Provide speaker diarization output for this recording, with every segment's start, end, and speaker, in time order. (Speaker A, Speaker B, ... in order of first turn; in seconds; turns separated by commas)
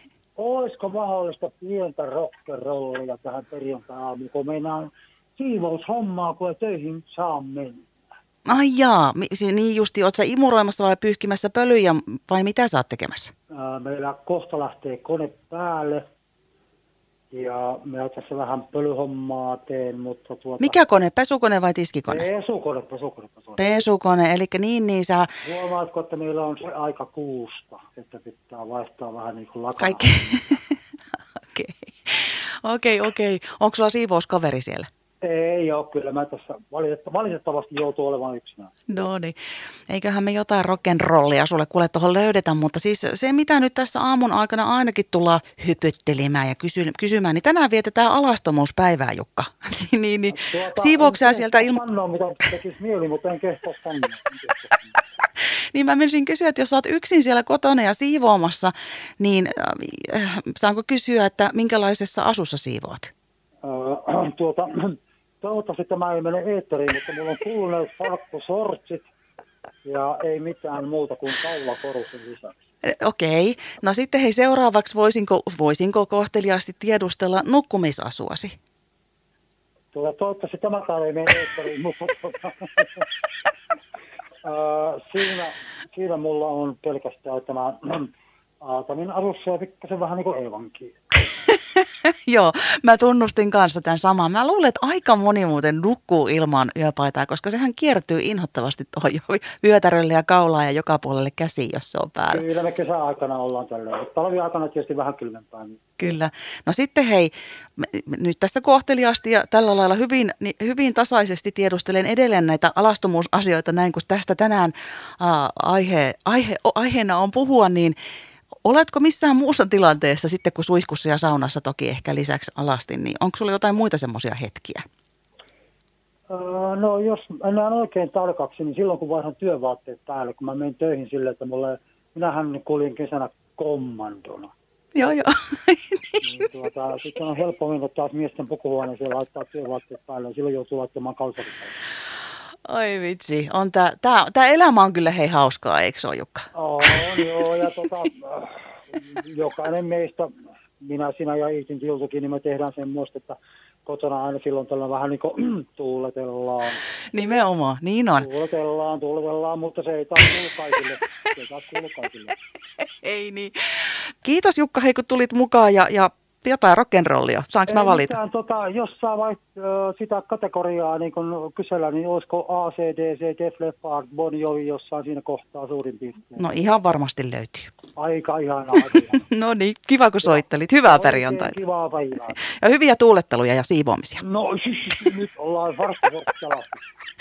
Speaker A: 0.3-7.9, Speaker B: 8.4-13.3, Speaker A: 13.5-16.1, Speaker A: 17.3-20.8, Speaker B: 20.6-22.2, Speaker A: 22.1-23.8, Speaker B: 23.6-25.3, Speaker A: 25.4-30.4, Speaker B: 29.8-30.6, Speaker B: 31.4-34.9, Speaker A: 35.2-39.0, Speaker B: 38.9-39.4, Speaker B: 39.9-51.8, Speaker A: 50.3-55.0, Speaker B: 55.7-63.1, Speaker A: 63.6-69.1, Speaker A: 69.8-72.6, Speaker B: 72.8-78.5, Speaker A: 79.9-83.0, Speaker A: 84.4-88.1, Speaker A: 88.6-91.0, Speaker B: 91.5-102.4, Speaker A: 102.3-105.8, Speaker B: 106.0-118.0, Speaker B: 118.6-124.8, Speaker A: 126.3-134.5, Speaker B: 134.9-136.0, Speaker A: 136.2-141.8, Speaker B: 142.7-146.5, Speaker A: 146.5-156.8, Speaker B: 157.1-158.2, Speaker A: 158.2-162.3, Speaker B: 162.8-168.2, Speaker A: 167.7-176.6, Speaker B: 176.4-177.7, Speaker A: 178.0-179.2, Speaker B: 179.2-181.6, Speaker A: 180.2-182.3, Speaker B: 182.3-184.2, Speaker A: 184.2-186.9